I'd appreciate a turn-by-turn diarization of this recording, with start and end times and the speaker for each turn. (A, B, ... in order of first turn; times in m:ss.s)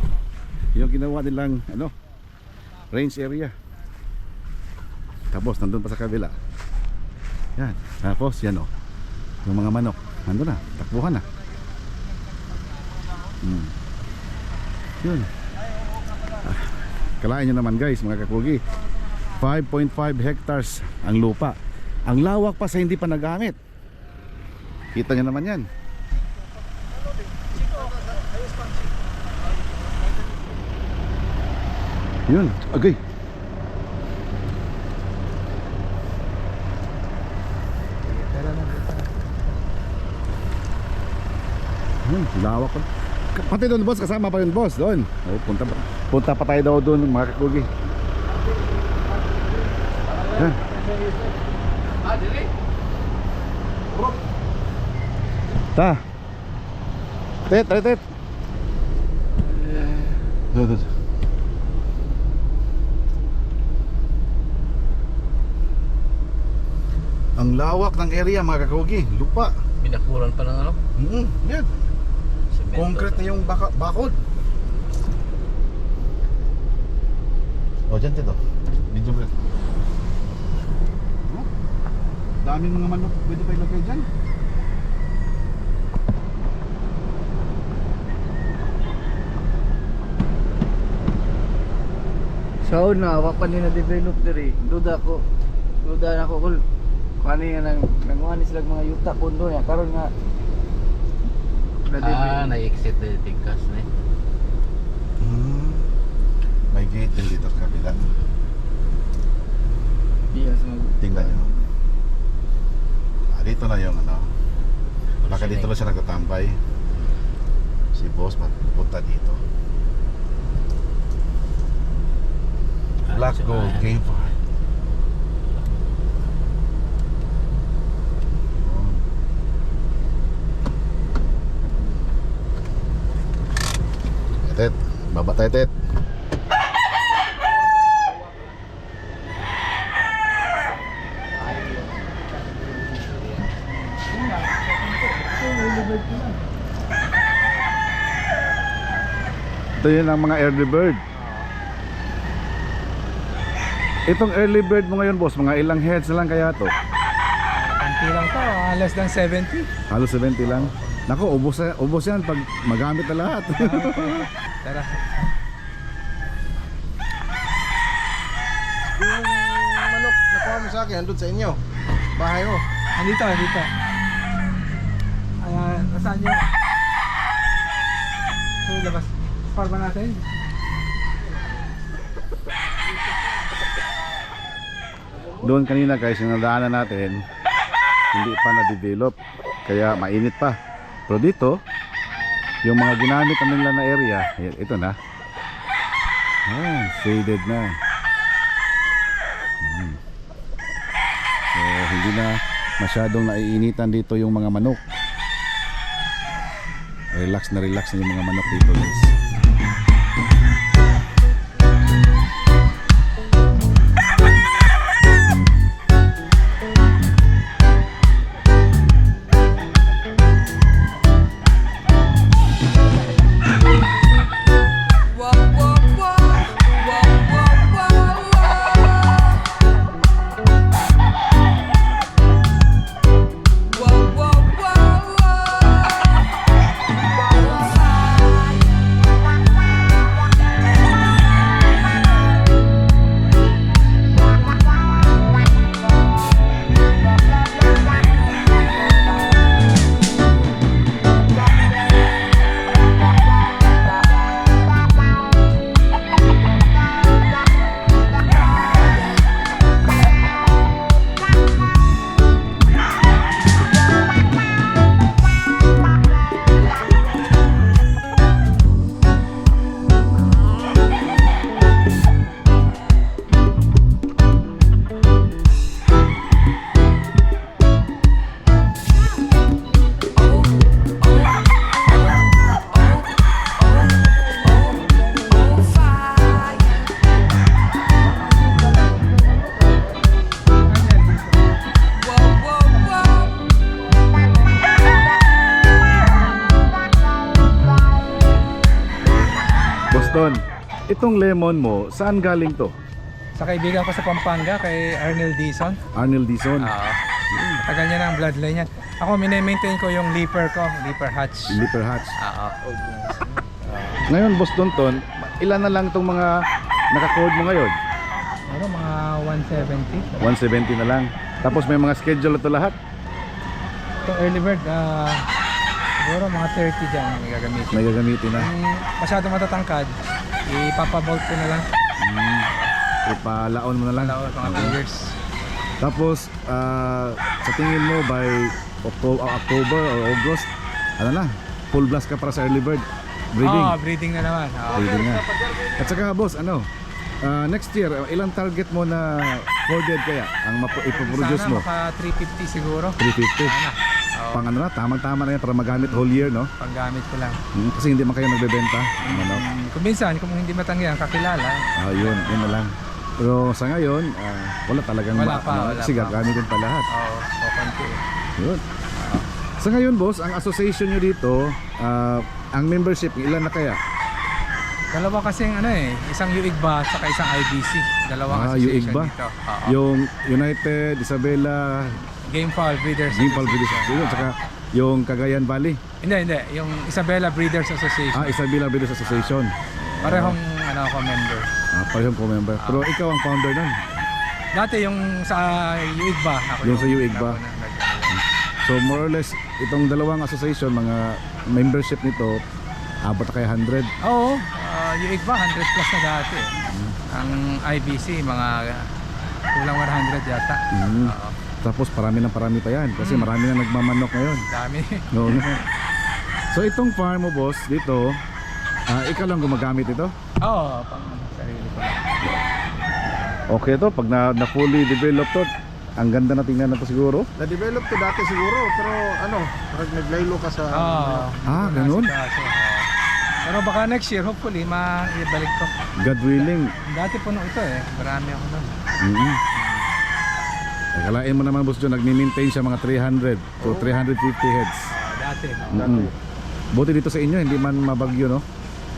0:00.7-0:01.9 A
0:02.9-0:03.5 A
0:05.3-0:06.3 A
0:07.6-0:08.7 A
0:09.4-0:11.3 A
0:13.4-0:13.7 A
0:15.0-0:15.3 A
0:15.7-0:16.5 B
0:16.4-0:18.6 A
0:19.3-0:23.6 A
0:24.9-0:25.7 A
0:27.5-0:28.5 B
0:32.3-0:33.0 A
0:38.0-0:39.2 C
0:42.0-0:47.7 A
0:50.1-0:51.0 B
0:50.2-0:51.2 D
0:52.1-0:52.4 E
0:53.9-0:54.2 B
0:55.7-0:56.0 A
0:57.5-0:58.0 A
0:59.6-1:00.9 A
1:07.4-1:09.5 A
1:09.8-1:10.8 E
1:11.0-1:11.8 A
1:12.5-1:13.5 E
1:12.7-1:14.2 A
1:17.9-1:18.4 A
1:18.9-1:19.3 A
1:22.4-1:24.1 A
1:32.6-1:35.2 D
1:35.8-1:36.6 D
1:37.2-1:40.1 D
1:41.8-1:42.5 D
1:42.0-1:43.9 E
1:45.2-1:45.8 A
1:46.7-1:48.0 A
1:50.3-1:51.6 D
1:51.0-1:51.5 A
1:53.3-1:54.3 A
1:55.2-1:55.8 E
1:55.3-1:56.6 A
1:57.9-1:59.4 A
2:03.0-2:03.9 E
2:03.1-2:04.3 A
2:08.5-2:09.0 A
2:14.4-2:15.7 A
2:21.4-2:22.0 E
2:22.6-2:23.5 E
2:24.0-2:26.4 C
2:29.8-2:31.0 A
2:31.2-2:31.5 C
2:34.1-2:36.7 A
2:37.5-2:39.7 C
2:39.9-2:44.3 A
2:43.4-2:45.1 C
2:48.9-2:51.6 B
2:52.2-2:52.6 B
2:53.0-2:53.7 C
2:55.4-2:56.5 C
2:58.6-3:00.2 C
3:05.4-3:07.3 A
3:08.1-3:11.6 A
3:12.6-3:15.0 A
3:16.4-3:17.8 A
3:19.6-3:20.0 A
3:21.5-3:24.8 A
3:27.1-3:29.1 A
3:45.9-3:46.4 C
4:41.8-4:43.0 C
4:43.6-4:46.8 C
4:50.6-4:51.6 C
4:52.2-4:53.3 C
4:59.9-5:02.7 A
5:03.4-5:05.8 C
5:05.9-5:06.7 A
5:06.6-5:07.0 C
5:07.3-5:07.6 A
5:07.6-5:11.6 C
5:11.5-5:12.1 A
5:12.2-5:12.7 C
5:12.9-5:13.3 D
5:13.6-5:14.0 C
5:14.1-5:17.8 A
5:18.4-5:20.3 C
5:20.2-5:22.8 A
5:24.0-5:25.3 C
5:26.0-5:29.9 C
5:27.7-5:28.5 A
5:30.4-5:31.6 C
5:32.0-5:32.5 A
5:32.5-5:32.7 C
5:33.0-5:34.8 A
5:33.9-5:35.2 C
5:35.8-5:43.8 A
5:43.4-5:44.9 C
5:44.7-5:46.0 B
5:44.7-5:45.2 A
5:45.8-5:46.7 A
5:47.2-5:51.6 A
5:50.7-5:54.5 C
5:53.0-5:53.5 A
5:54.3-5:56.5 A
5:55.7-5:57.4 C
5:57.5-5:59.4 A
5:59.0-6:02.6 C
6:01.8-6:06.9 A
6:05.1-6:08.0 C
6:08.4-6:08.6 A
6:09.0-6:09.2 C
6:09.6-6:13.8 A
6:14.9-6:19.8 C
6:18.3-6:19.1 A
6:19.6-6:22.0 A
6:22.3-6:24.3 C
6:23.1-6:25.8 A
6:26.0-6:28.4 C
6:28.1-6:30.4 A
6:29.0-6:29.4 C
6:30.0-6:31.5 C
6:31.7-6:34.1 A
6:32.6-6:32.8 C
6:34.5-6:38.2 C
6:36.6-6:37.4 A
6:38.1-6:42.4 A
6:43.0-6:43.9 A
6:44.0-6:46.5 C
6:46.6-6:47.0 A
6:47.1-6:48.9 C
6:49.5-6:51.3 C
6:50.7-6:54.4 A
6:53.0-6:53.3 C
6:54.5-6:55.6 C
6:55.1-6:55.6 A
6:56.5-6:58.2 A
6:58.9-7:00.1 A
7:00.4-7:02.2 C
7:03.5-7:07.3 A
7:07.4-7:11.3 B
7:10.7-7:12.9 C
7:11.4-7:12.1 A
7:13.4-7:18.8 C
7:16.0-7:16.7 A
7:19.0-7:19.4 A
7:19.5-7:19.9 C
7:20.9-7:24.9 A
7:24.9-7:26.0 C
7:25.7-7:26.1 A
7:25.7-7:26.1 B
7:26.7-7:28.4 A